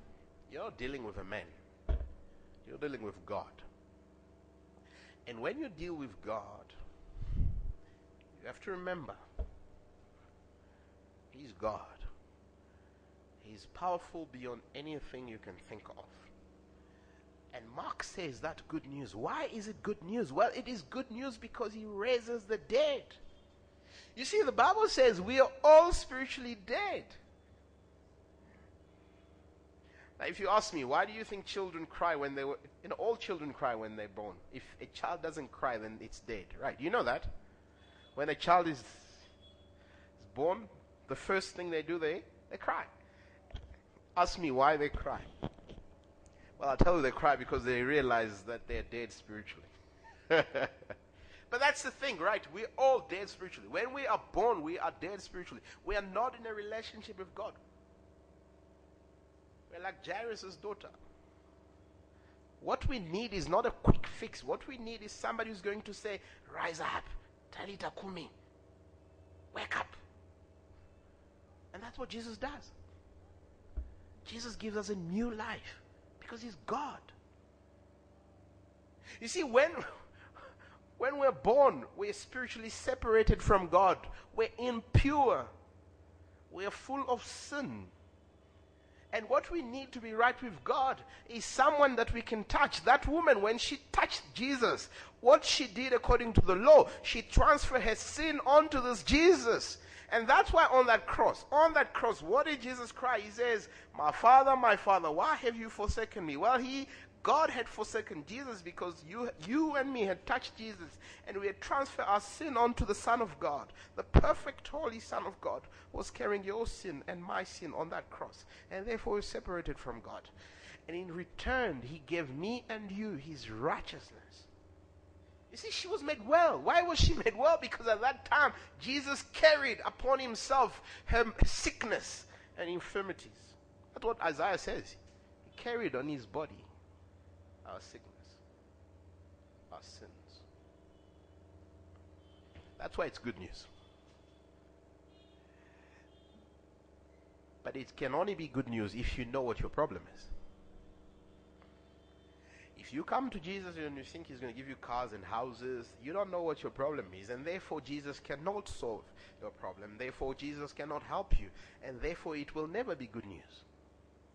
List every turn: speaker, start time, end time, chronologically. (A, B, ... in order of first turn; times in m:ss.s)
0:00.5-0:01.6 A
0:02.6-0:03.7 A
0:05.3-0:06.7 A
0:08.4-0:09.2 A
0:11.3-0:12.1 A
0:13.4-0:16.3 A
0:17.5-0:23.2 A
0:24.2-0:27.2 A
0:30.2-0:37.3 A
0:38.2-0:39.3 A
0:40.2-0:42.9 A
0:44.2-0:45.3 A
0:46.6-0:49.7 A
0:50.3-0:50.9 A
0:51.5-0:57.6 A
0:59.7-1:01.0 A
1:02.6-1:08.3 A
1:09.5-1:10.0 A
1:11.7-1:12.7 A
1:14.3-1:17.1 A
1:19.2-1:20.0 A
1:21.0-1:25.5 A
1:26.5-1:27.9 A
1:29.1-2:00.3 A
2:00.9-2:04.5 A
2:05.5-2:16.7 A
2:17.6-2:18.4 A
2:19.7-2:20.4 A
2:22.8-2:23.7 A
2:27.6-2:30.3 A
2:32.8-2:43.6 A